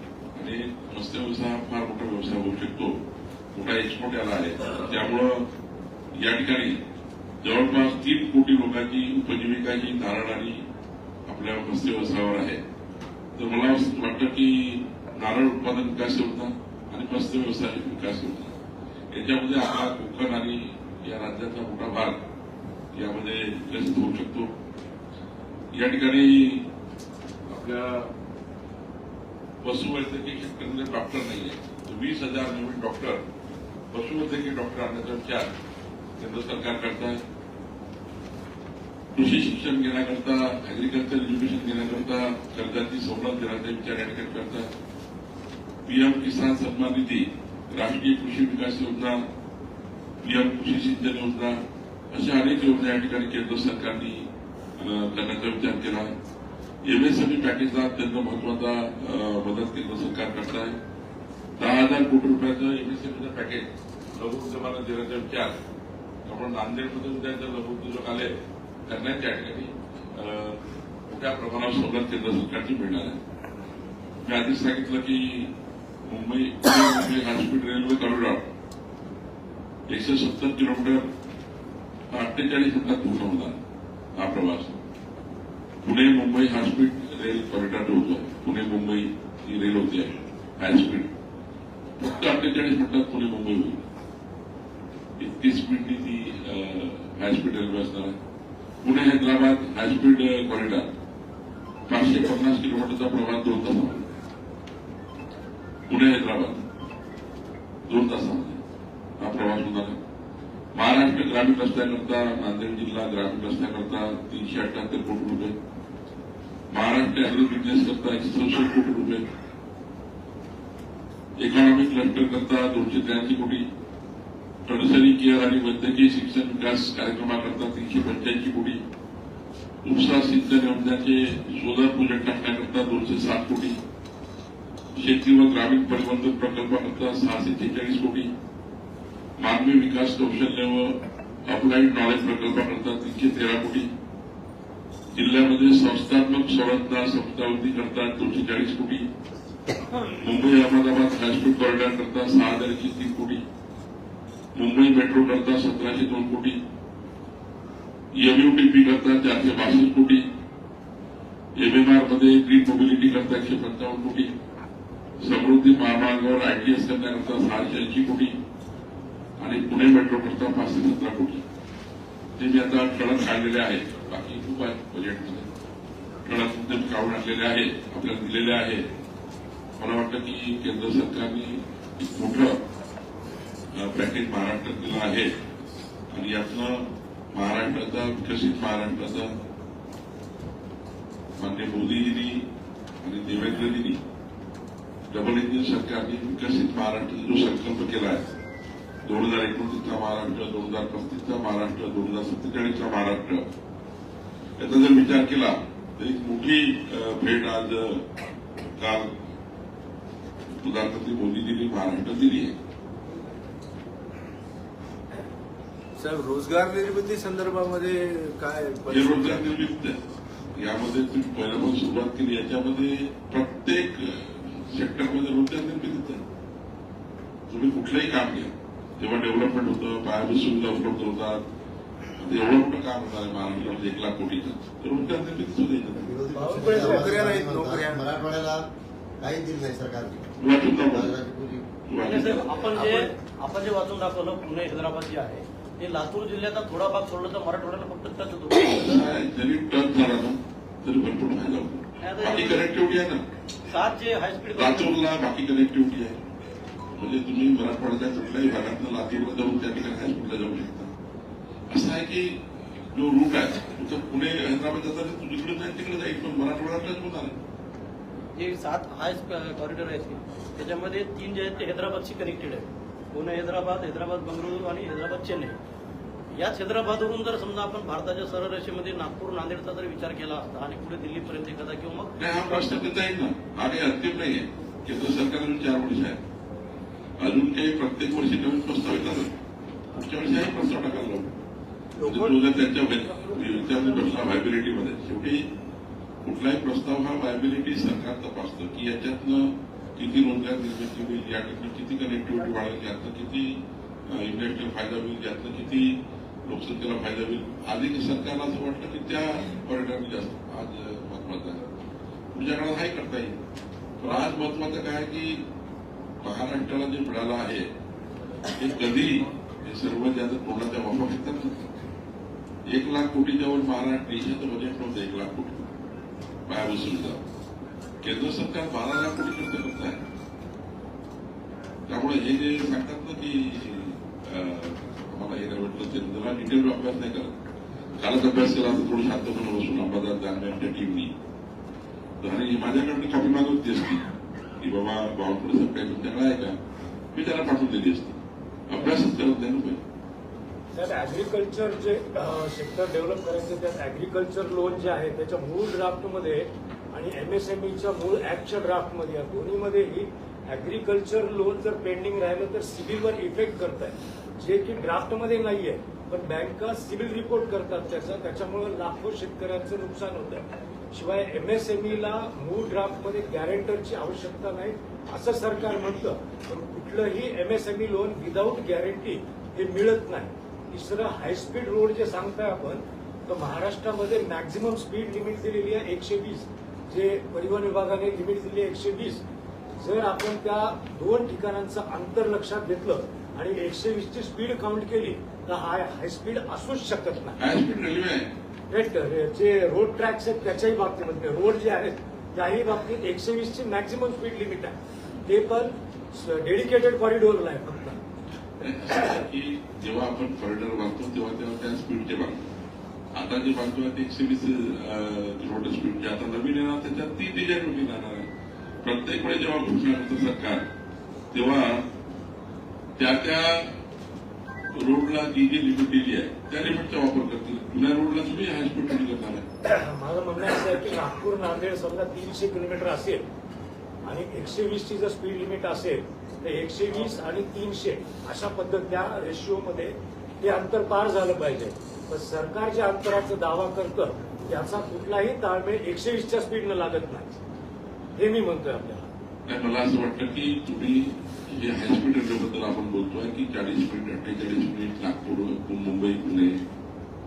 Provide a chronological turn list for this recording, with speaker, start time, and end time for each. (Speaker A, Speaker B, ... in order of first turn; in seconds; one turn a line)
Speaker A: 0.3-3.0
Speaker A: 3.5-5.5
Speaker A: 6.2-6.8
Speaker A: 7.4-10.6
Speaker A: 11.2-12.6
Speaker A: 13.3-18.5
Speaker A: 19.1-22.2
Speaker A: 22.9-24.5
Speaker A: 25.7-26.7
Speaker A: 27.5-28.1
Speaker A: 29.6-33.2
Speaker A: 33.9-35.5
Speaker A: 36.2-37.2
Speaker A: 39.1-44.7
Speaker A: 45.8-49.2
Speaker A: 50.2-56.1
Speaker A: 56.8-60.8
Speaker A: 61.6-65.6
Speaker A: 66.2-73.2
Speaker A: 74.2-75.5
Speaker A: 76.0-78.5
Speaker A: 79.9-81.0
Speaker A: 82.1-83.6
Speaker A: 84.2-84.8
Speaker A: 85.8-91.1
Speaker A: 92.0-93.8
Speaker A: 95.2-98.2
Speaker A: 98.8-100.9
Speaker A: 101.9-104.1
Speaker A: 105.9-106.7
Speaker A: 107.9-108.6
Speaker A: 109.2-110.0
Speaker A: 110.7-115.5
Speaker A: 116.7-119.2
Speaker A: 121.4-123.7
Speaker A: 124.7-128.8
Speaker A: 129.8-133.8
Speaker A: 135.0-138.3
Speaker A: 139.4-143.9
Speaker A: 145.1-149.1
Speaker A: 150.2-153.4
Speaker A: 154.5-156.6
Speaker A: 158.2-160.2
Speaker A: 161.6-164.3
Speaker A: 165.2-168.4
Speaker A: 169.4-171.4
Speaker A: 172.3-175.5
Speaker A: 176.2-178.9
Speaker A: 179.8-182.6
Speaker A: 183.7-185.3
Speaker A: 186.1-189.3
Speaker A: 191.4-192.5
Speaker A: 193.0-194.0
Speaker A: 195.1-198.3
Speaker A: 199.1-203.5
Speaker A: 204.6-208.1
Speaker A: 208.8-209.1
Speaker A: 210.5-212.6
Speaker B: 216.0-219.5
Speaker A: 218.9-220.0
Speaker A: 220.5-226.2
Speaker A: 227.5-231.4
Speaker A: 232.2-236.1
Speaker C: 236.0-238.7
Speaker B: 236.4-238.1
Speaker D: 236.4-237.1
Speaker C: 239.2-241.6
Speaker A: 240.4-241.2
Speaker A: 241.9-242.6
Speaker E: 242.0-249.1
Speaker A: 248.7-253.2
Speaker E: 252.0-252.7
Speaker E: 253.7-254.9
Speaker A: 254.5-256.2
Speaker A: 256.9-260.9
Speaker A: 261.7-267.4
Speaker E: 268.4-275.6
Speaker E: 276.4-282.8
Speaker A: 282.2-286.2
Speaker A: 287.2-289.4
Speaker A: 289.9-291.4
Speaker A: 292.0-295.4
Speaker A: 296.2-311.6
Speaker A: 312.3-313.4
Speaker A: 314.0-315.4
Speaker A: 316.2-317.7
Speaker A: 318.5-321.7
Speaker A: 322.7-325.7
Speaker A: 326.5-327.2
Speaker A: 328.0-330.0
Speaker A: 331.9-337.4
Speaker A: 338.0-341.1
Speaker A: 342.2-344.1
Speaker A: 344.6-346.6
Speaker A: 347.1-349.8
Speaker D: 350.7-389.2
Speaker D: 389.8-397.4
Speaker A: 397.4-398.3
Speaker D: 398.7-404.7
Speaker D: 405.2-408.0
Speaker A: 408.6-412.5
Speaker A: 413.1-418.3
Speaker A: 418.8-420.7
Speaker A: 421.3-421.8
Speaker A: 423.0-423.8
Speaker A: 424.7-429.4
Speaker D: 429.6-433.3
Speaker D: 434.0-447.4
Speaker D: 448.1-449.1
Speaker A: 449.5-456.6